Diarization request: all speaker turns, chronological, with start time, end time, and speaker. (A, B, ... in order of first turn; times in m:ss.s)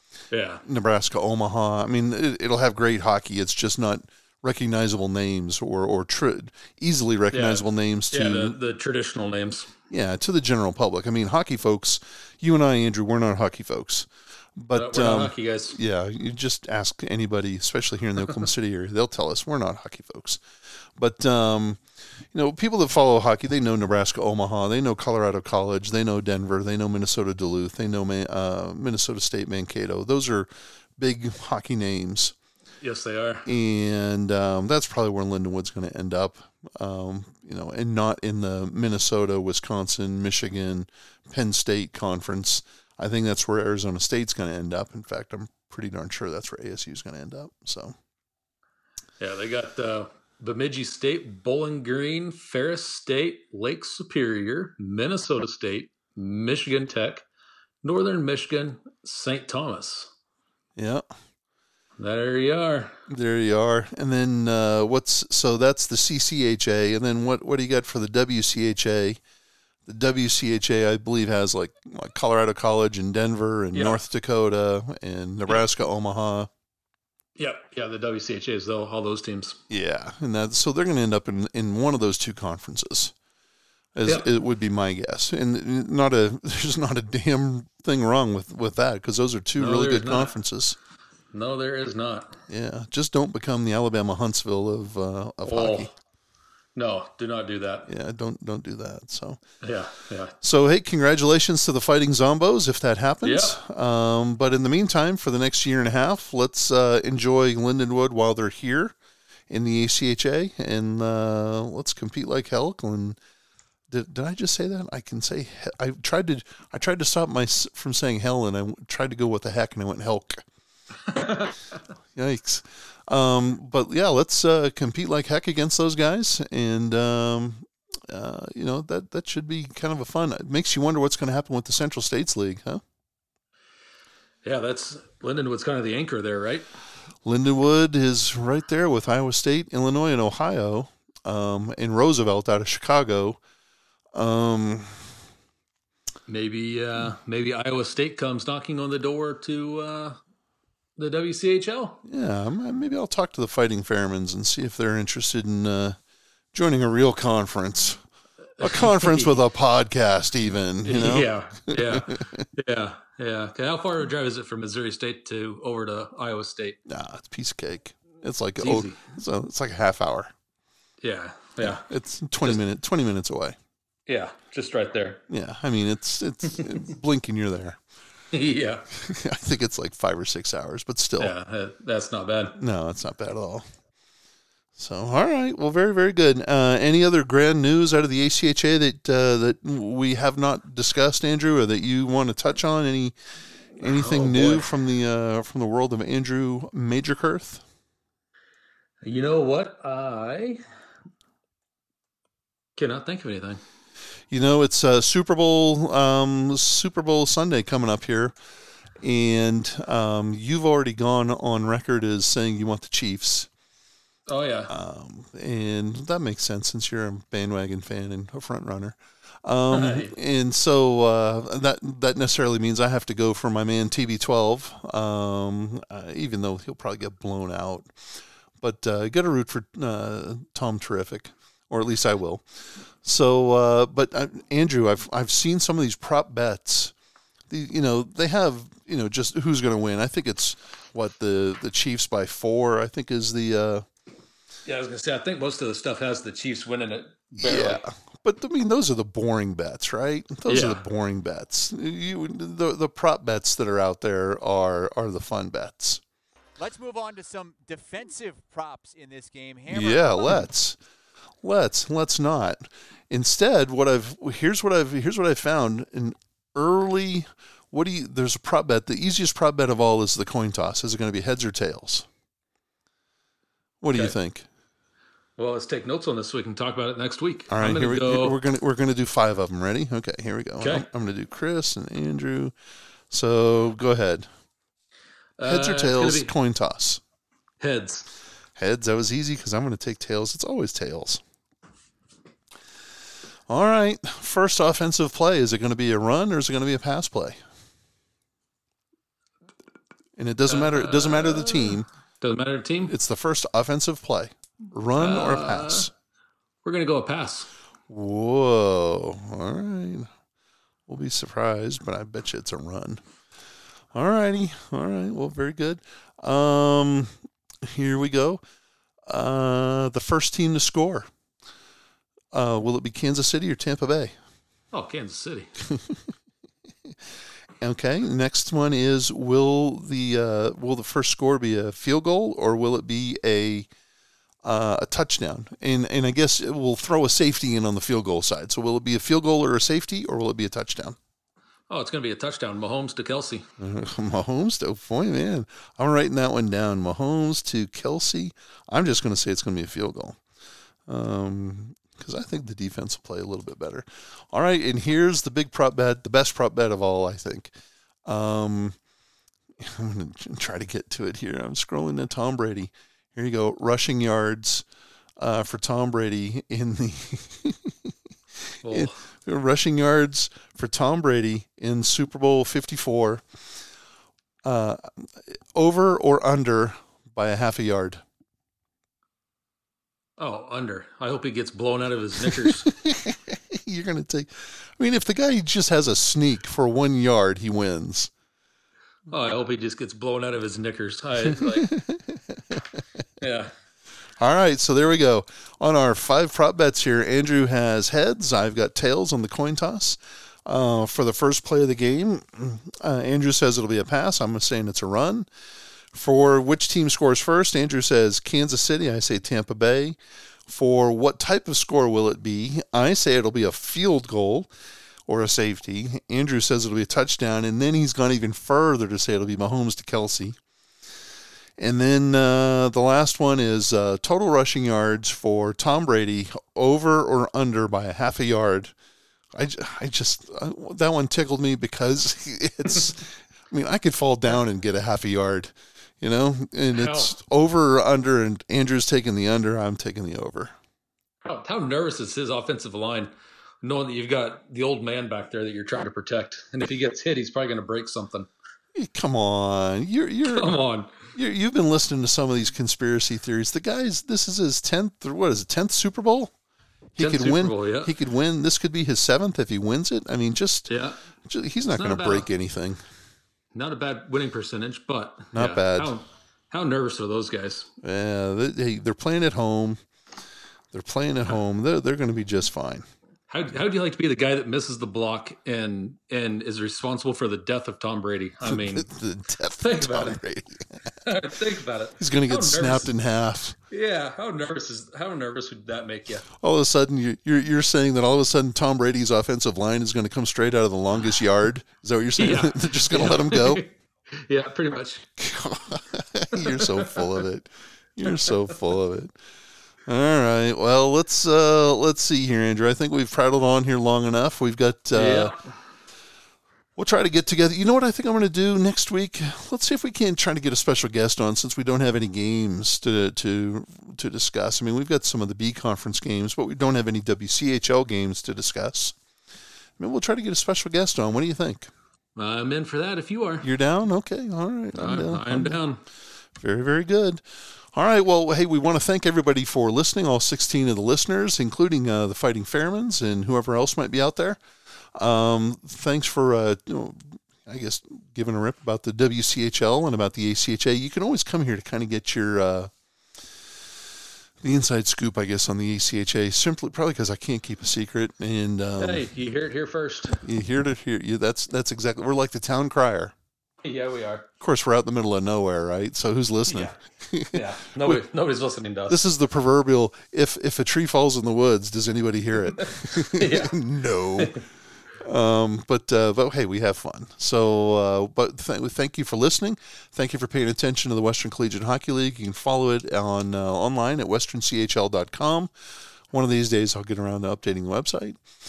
0:00.3-0:00.6 A
0:00.6-0:08.6 B
0:07.3-0:09.7 A
0:09.9-0:20.4 B
0:14.7-0:15.8 A
0:21.0-0:21.8 B
0:22.3-0:32.3 B
0:32.8-0:33.5 A
0:33.4-0:47.9 B
0:49.2-0:57.2 A
0:57.8-1:00.1 A
1:00.8-1:01.1 B
1:02.0-1:03.0 A
1:03.1-1:09.2 B
1:09.8-1:16.5 B
1:13.7-1:14.0 A
1:17.4-1:19.6 A
1:19.7-1:23.1 B
1:23.9-1:30.8 B
1:29.6-1:30.3 A
1:31.3-1:32.4 A
1:32.5-1:35.9 B
1:35.4-1:35.9 A
1:36.7-1:37.9 A
1:37.9-1:39.4 B
1:39.6-1:40.3 A
1:40.4-1:48.9 B
1:43.2-1:43.6 A
1:49.5-1:53.2 B
1:53.9-2:00.4 B
2:01.1-2:01.5 A
2:02.1-2:12.8 B
2:14.4-2:16.7 A
2:17.2-2:23.4 B
2:24.1-2:25.0 B
2:26.3-2:30.2 A
2:31.0-2:32.0 A
2:32.0-2:36.0 B
2:36.5-2:38.0 B
2:38.6-2:39.4 A
2:38.6-2:42.4 B
2:40.8-2:46.8 A
2:46.8-2:50.3 B
2:48.6-2:49.0 A
2:51.0-2:51.9 A
2:51.6-2:53.6 B
2:54.1-2:55.2 A
2:55.3-2:57.8 B
2:58.3-2:58.9 A
2:59.0-3:01.3 B
3:01.2-3:02.6 A
3:02.6-3:03.6 B
3:04.8-3:13.1 B
3:13.8-3:17.6 B
3:13.8-3:14.7 A
3:19.0-3:20.6 A
3:22.8-3:23.6 A
3:24.3-3:28.3 B
3:29.0-3:33.5 B
3:34.3-3:34.7 A
3:34.7-3:47.9 B
3:39.7-3:40.1 A
3:48.6-3:56.9 B
3:57.5-4:03.8 B
4:04.6-4:07.8 A
4:07.3-4:16.0 B
4:10.5-4:10.8 A
4:16.6-4:20.4 C
4:19.7-4:20.8 B
4:21.4-4:32.1 B
4:33.8-4:34.5 B
4:35.4-4:38.4 A
4:37.5-4:42.5 B
4:40.6-4:40.8 A
4:43.1-4:44.3 B
4:45.4-4:46.3 A
4:45.4-4:47.0 B
4:47.6-4:48.1 A
4:48.6-4:51.2 B
4:53.5-4:57.4 B
5:00.2-5:01.9 B
5:00.5-5:02.9 A
5:02.9-5:05.9 B
5:05.0-5:05.9 A
5:06.6-5:07.5 A
5:07.9-5:10.1 B
5:10.9-5:13.0 B
5:13.9-5:18.4 B
5:19.0-5:21.1 B
5:22.3-5:24.2 B
5:24.7-5:25.6 A
5:25.7-5:26.0 B
5:27.6-5:33.7 B
5:34.4-5:41.0 B
5:41.7-5:43.5 A
5:43.6-5:50.2 B
5:50.9-5:57.5 B
5:58.0-5:58.8 B
5:59.6-6:04.6 B
6:05.2-6:13.2 B
6:08.6-6:09.0 A
6:14.4-6:18.0 B
6:20.2-6:22.7 A
6:22.3-6:28.1 B
6:29.1-6:31.7 A
6:31.2-6:32.6 B
6:33.2-6:33.5 A
6:34.2-6:45.3 B
6:45.9-6:54.5 B
6:55.1-7:00.4 B
7:01.6-7:08.7 B
7:09.3-7:20.5 B
7:16.7-7:17.1 A
7:21.2-7:28.3 A
7:28.7-7:30.6 B
7:30.3-7:31.1 A
7:31.1-7:36.3 B
7:36.9-7:40.7 B
7:37.0-7:37.9 A
7:40.7-7:41.0 A
7:41.2-7:42.8 B
7:41.7-7:42.3 A
7:43.5-7:47.7 A
7:45.3-7:45.9 B
7:47.8-7:49.8 B
7:50.7-7:52.8 B
7:53.3-7:58.9 A
7:58.4-8:00.8 B
7:59.6-8:00.2 A
8:01.0-8:02.9 A
8:02.0-8:03.6 B
8:03.7-8:06.2 A
8:06.3-8:13.6 B
8:12.2-8:15.1 A
8:15.2-8:19.1 B
8:16.3-8:17.2 A
8:19.8-8:25.3 B
8:24.9-8:25.5 A
8:26.8-8:39.0 B
8:39.8-8:41.7 B
8:42.2-8:43.5 A
8:43.4-8:45.6 B
8:44.7-8:45.8 A
8:46.4-8:47.2 B
8:47.7-8:54.4 B
8:54.9-9:02.7 B
9:04.4-9:09.1 B
9:08.8-9:10.2 A
9:10.1-9:13.1 B
9:13.6-9:14.3 A
9:14.4-9:18.0 B
9:16.5-9:16.8 A
9:17.3-9:19.0 A
9:18.9-9:24.4 B
9:22.6-9:23.6 A
9:25.0-9:35.5 B
9:36.1-9:38.2 B